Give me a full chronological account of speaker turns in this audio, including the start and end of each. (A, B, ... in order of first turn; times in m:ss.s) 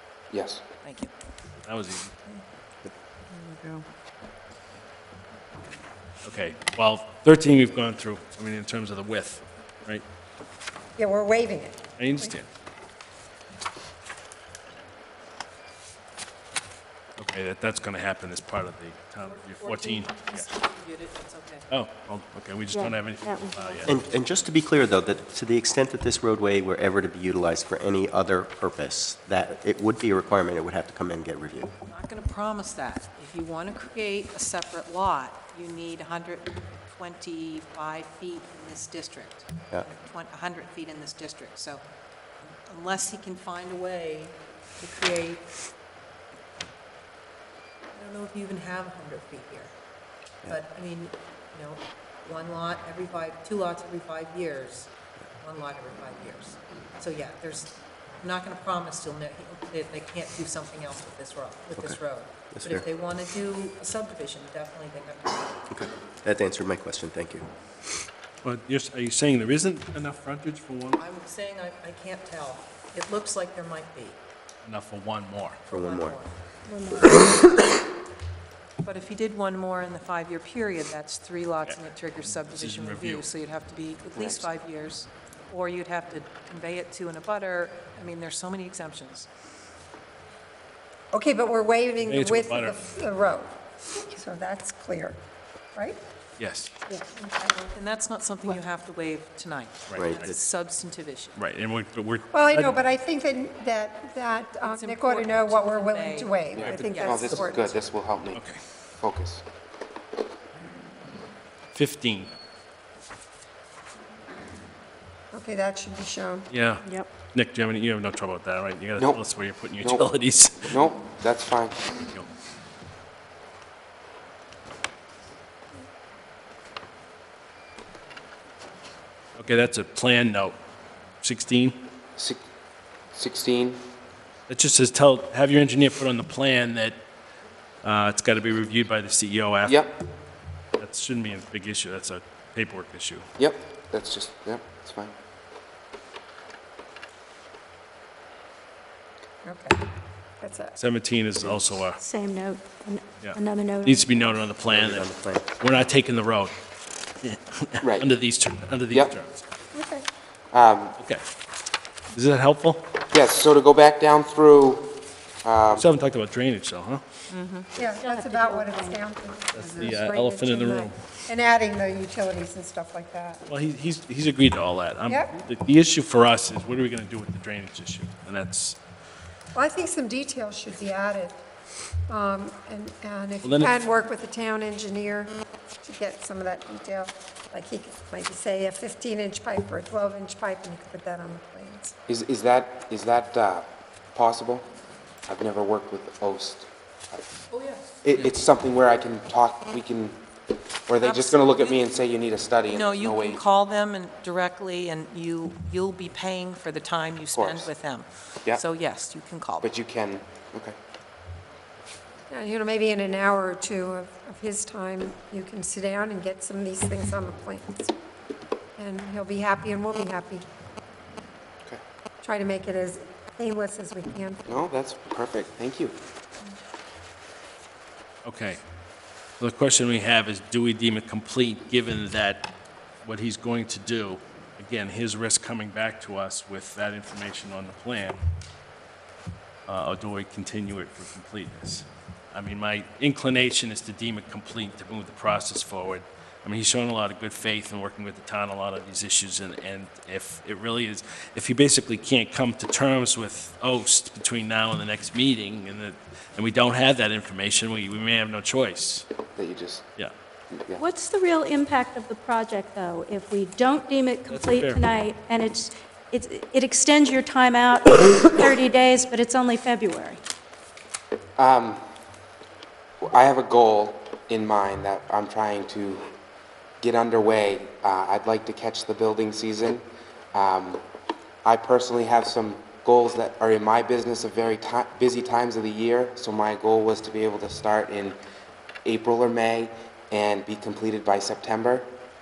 0:00.3-0:00.6 A
0:00.8-0:01.1 B
0:01.6-0:02.1 C
0:03.3-0:03.8 B
0:06.2-0:10.0 C
0:11.0-0:12.3 D
0:12.0-0:12.5 C
0:17.2-0:20.4 C
0:19.2-0:21.6 B
0:21.7-0:24.0 C
0:22.7-0:23.8 E
0:23.9-0:31.7 F
0:31.9-0:41.8 B
0:42.6-0:45.4 B
0:47.9-0:49.7 B
0:50.4-1:05.6 B
1:02.5-1:02.8 F
1:05.7-1:07.4 F
1:08.4-1:11.0 C
1:11.0-1:14.2 B
1:14.6-1:15.6 C
1:15.7-1:16.3 B
1:15.7-1:16.2 F
1:16.7-1:17.0 E
1:18.8-1:29.3 B
1:21.7-1:23.2 C
1:24.2-1:24.5 A
1:31.1-1:35.2 D
1:32.0-1:32.8 C
1:36.4-1:36.7 C
1:36.9-1:37.7 D
1:37.7-1:41.4 B
1:39.9-1:40.3 C
1:39.9-1:40.2 F
1:41.4-1:42.8 C
1:42.3-1:47.8 D
1:44.6-1:47.5 B
1:46.5-1:48.4 A
1:48.3-1:48.6 C
1:49.0-1:49.4 A
1:51.7-1:52.3 C
1:55.3-1:56.5 D
1:56.5-2:00.7 C
1:56.8-1:57.1 E
1:59.8-2:00.1 A
2:00.7-2:01.8 A
2:09.4-2:10.6 C
2:11.2-2:11.8 C
2:13.1-2:13.8 A
2:14.5-2:17.0 C
2:17.8-2:19.8 C
2:19.6-2:20.0 A
2:20.8-2:23.2 C
2:23.4-2:25.1 A
2:29.4-2:29.8 D
2:30.4-2:30.7 D
2:30.8-2:32.0 C
2:32.0-2:34.2 E
2:33.2-2:36.5 C
2:34.6-2:35.4 F
2:37.2-2:39.4 C
2:37.8-2:38.1 A
2:39.7-2:40.0 D
2:40.5-2:40.9 A
2:42.1-2:42.8 C
2:43.1-2:45.9 A
2:45.7-2:47.0 C
2:47.3-2:47.7 B
2:47.8-2:53.4 D
2:47.8-2:49.0 E
2:49.5-2:50.9 C
2:53.5-2:58.8 C
2:55.1-2:55.3 D
2:59.5-3:01.4 D
3:02.1-3:11.9 D
3:03.4-3:03.8 C
3:12.1-3:14.7 A
3:15.3-3:17.2 A
3:17.5-3:17.8 B
3:18.0-3:20.2 A
3:20.9-3:23.4 A
3:21.0-3:21.8 B
3:22.7-3:29.7 B
3:27.3-3:27.7 A
3:29.6-3:30.8 A
3:32.3-3:37.9 D
3:38.8-3:40.4 D
3:42.2-3:44.4 D
3:44.5-3:45.9 A
3:48.2-3:48.6 C
3:49.4-3:52.5 C
3:53.0-3:58.2 C
3:59.7-4:19.0 C
4:19.3-4:19.8 A
4:20.5-4:20.8 A
4:20.8-4:30.2 E
4:24.3-4:24.8 C
4:31.4-4:31.8 A
4:33.0-4:36.1 A
4:36.8-4:40.8 A
4:41.4-4:48.2 A
4:48.8-4:51.9 A